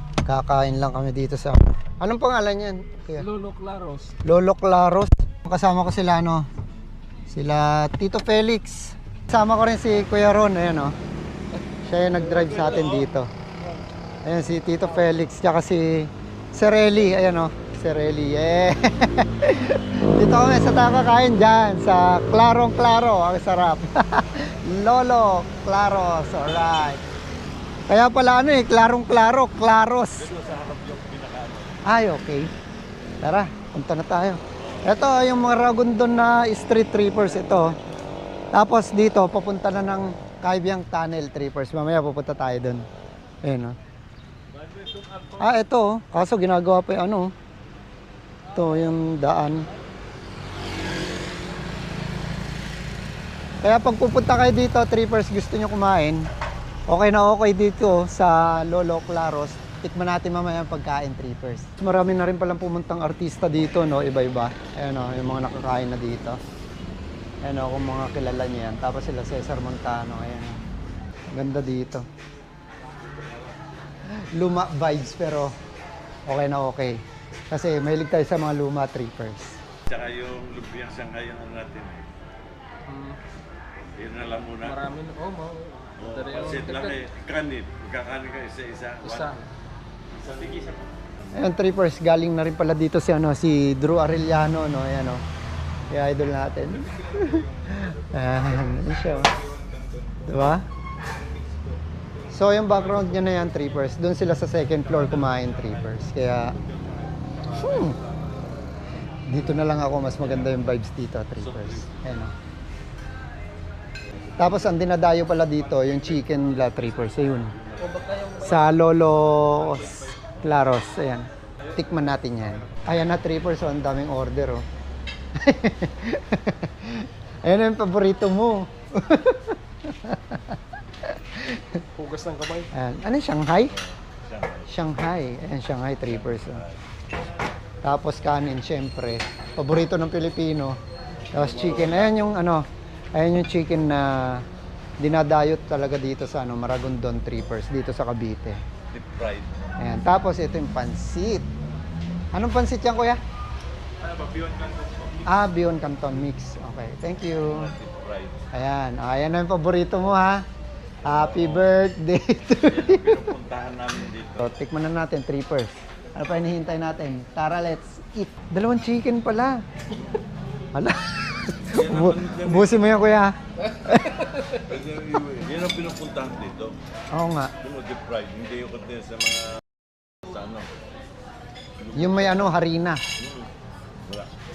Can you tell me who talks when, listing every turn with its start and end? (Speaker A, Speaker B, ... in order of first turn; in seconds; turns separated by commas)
Speaker A: 0.2-3.3, Speaker B: 3.2-4.1, Speaker A: 4.2-6.5, Speaker A: 7.3-10.9, Speaker A: 11.8-13.3, Speaker C: 12.3-13.1, Speaker A: 14.2-27.0, Speaker A: 27.9-30.3, Speaker C: 30.2-31.9, Speaker A: 31.9-32.5, Speaker A: 33.2-37.8, Speaker C: 34.6-34.9, Speaker A: 38.5-42.9, Speaker A: 43.4-43.8, Speaker C: 44.5-45.5, Speaker A: 45.4-47.3, Speaker A: 48.5-49.7, Speaker A: 53.6-56.2, Speaker A: 56.9-66.4, Speaker A: 67.4-70.6, Speaker A: 71.3-72.0, Speaker A: 74.1-75.5, Speaker A: 76.3-79.6, Speaker C: 79.9-82.1, Speaker B: 82.9-83.2, Speaker C: 84.0-84.8, Speaker B: 84.6-87.0, Speaker C: 86.0-89.3, Speaker B: 89.0-89.5, Speaker C: 90.1-90.8, Speaker A: 91.3-95.2, Speaker A: 95.9-99.4, Speaker A: 100.3-100.7, Speaker A: 102.3-106.6, Speaker A: 107.4-108.0, Speaker A: 109.3-112.3, Speaker C: 111.4-111.9, Speaker A: 114.4-117.5, Speaker C: 117.6-117.9, Speaker B: 117.8-118.7, Speaker A: 118.4-124.6, Speaker A: 125.4-131.8, Speaker B: 132.0-132.7, Speaker A: 132.7-133.8, Speaker C: 134.1-134.8, Speaker A: 134.7-136.6, Speaker C: 136.2-136.8, Speaker A: 137.8-140.8, Speaker C: 141.3-142.2, Speaker A: 141.3-144.4, Speaker A: 145.0-148.6, Speaker C: 148.9-149.5, Speaker A: 149.8-151.5, Speaker A: 152.3-153.2, Speaker A: 155.2-157.7, Speaker C: 157.5-158.4, Speaker A: 158.5-160.4, Speaker A: 161.1-163.3, Speaker C: 161.1-161.7, Speaker C: 162.6-164.4, Speaker A: 164.4-169.6, Speaker A: 170.7-173.3, Speaker C: 171.7-173.0, Speaker A: 173.8-174.2, Speaker C: 174.4-176.8, Speaker A: 177.1-177.5, Speaker C: 177.6-179.6, Speaker C: 180.2-180.7, Speaker C: 181.8-182.5, Speaker A: 181.9-183.0, Speaker C: 183.2-183.5